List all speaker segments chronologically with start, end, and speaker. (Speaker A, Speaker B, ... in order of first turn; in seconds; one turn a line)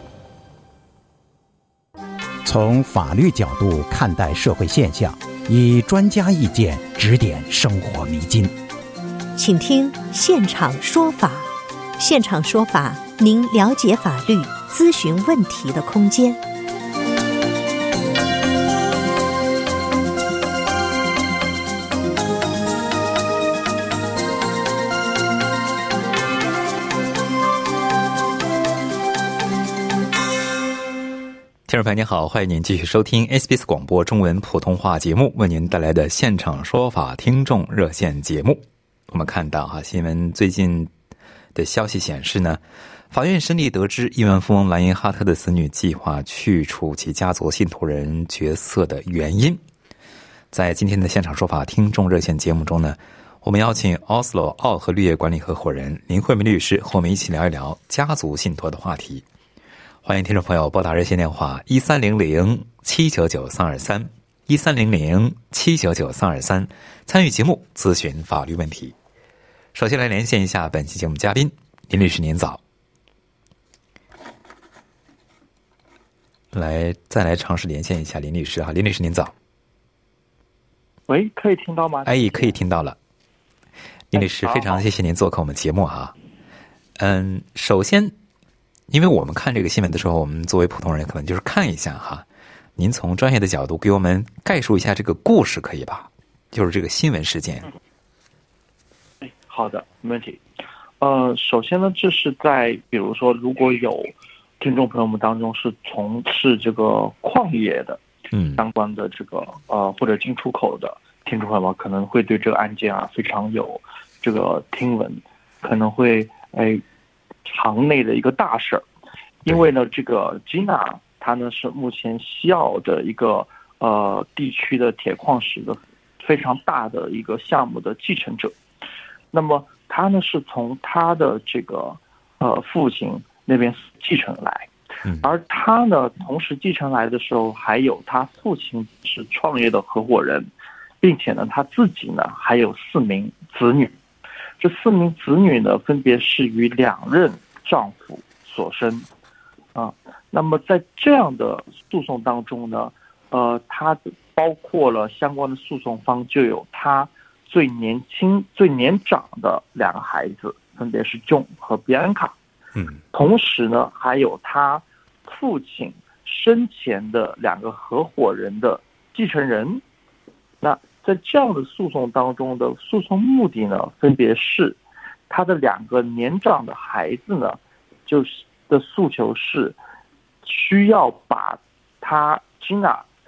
Speaker A: 2.5-8.5
Speaker B: 9.4-16.4
Speaker C: 31.6-40.9
Speaker C: 41.5-42.6
Speaker C: 43.1-49.6
Speaker C: 50.5-59.2
Speaker C: 60.0-68.9
Speaker C: 69.7-72.6
Speaker C: 76.5-79.3
Speaker D: 81.1-82.6
Speaker C: 82.0-83.0
Speaker C: 84.1-86.1
Speaker D: 84.1-84.8
Speaker C: 87.0-88.1
Speaker C: 88.9-92.2
Speaker C: 92.8-97.7
Speaker D: 99.2-100.4
Speaker D: 101.0-108.0
Speaker C: 108.3-108.6
Speaker D: 108.5-116.8
Speaker D: 117.4-118.8
Speaker D: 119.4-128.5
Speaker D: 129.3-134.7
Speaker D: 135.2-140.5
Speaker D: 141.0-143.9
Speaker D: 144.6-149.1
Speaker D: 149.8-162.3
Speaker D: 163.1-169.8
Speaker D: 170.6-174.8
Speaker D: 175.3-179.8
Speaker D: 180.4-183.1